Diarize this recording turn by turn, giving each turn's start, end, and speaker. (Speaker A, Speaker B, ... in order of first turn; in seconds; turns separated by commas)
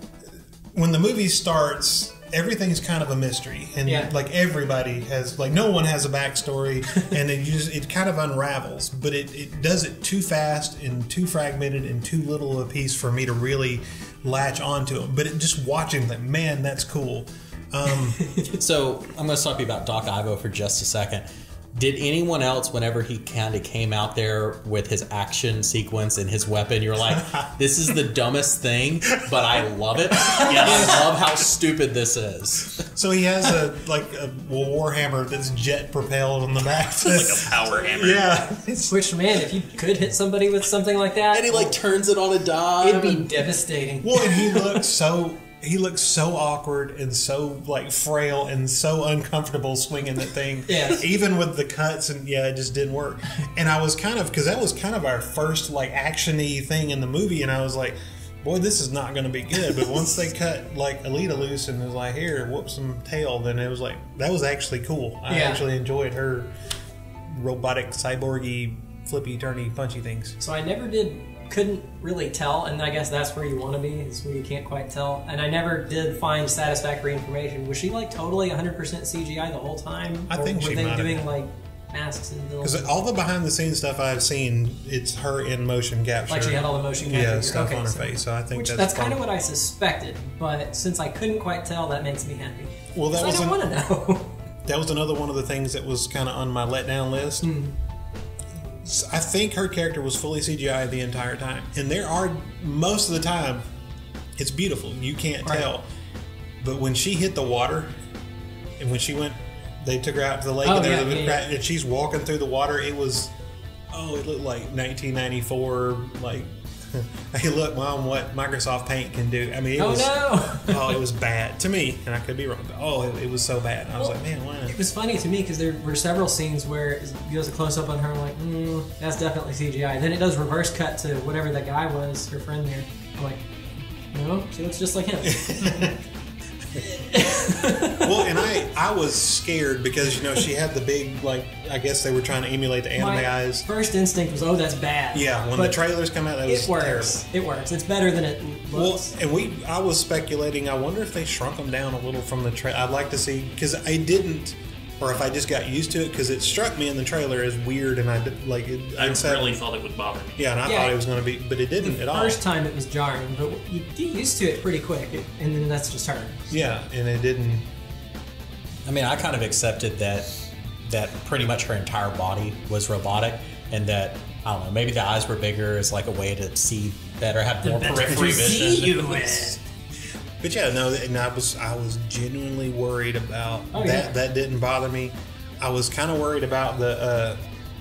Speaker A: 0.7-18.3, Speaker B: 3.9-4.1, Speaker C: 18.5-32.9, Speaker A: 30.4-30.7, Speaker D: 30.4-31.1, Speaker A: 32.9-39.0, Speaker D: 37.0-38.5, Speaker B: 38.9-41.8, Speaker C: 41.3-43.6, Speaker B: 42.8-44.8, Speaker A: 44.0-66.5, Speaker B: 50.7-51.0, Speaker B: 65.3-65.6, Speaker A: 67.3-70.4, Speaker B: 70.4-82.9, Speaker A: 80.3-81.3, Speaker A: 82.6-89.2, Speaker B: 86.3-94.3, Speaker A: 92.9-93.6, Speaker A: 94.7-97.5, Speaker B: 97.4-97.7, Speaker A: 98.8-103.7, Speaker A: 104.4-105.9, Speaker A: 106.6-107.9, Speaker A: 108.8-113.3, Speaker B: 110.6-111.5, Speaker A: 113.9-124.8, Speaker B: 119.8-121.0, Speaker B: 124.0-133.4, Speaker B: 134.1-136.0, Speaker A: 135.2-136.0, Speaker B: 136.8-138.4, Speaker A: 137.8-143.7, Speaker B: 143.0-145.8, Speaker A: 145.1-147.2, Speaker B: 146.5-149.1, Speaker A: 148.7-159.6, Speaker D: 159.0-160.5, Speaker A: 160.4-162.4, Speaker B: 160.7-161.0, Speaker B: 161.8-166.4, Speaker A: 166.5-167.7, Speaker C: 168.8-178.9, Speaker B: 177.6-179.6, Speaker A: 178.1-179.5, Speaker A: 180.4-187.4, Speaker B: 183.7-184.2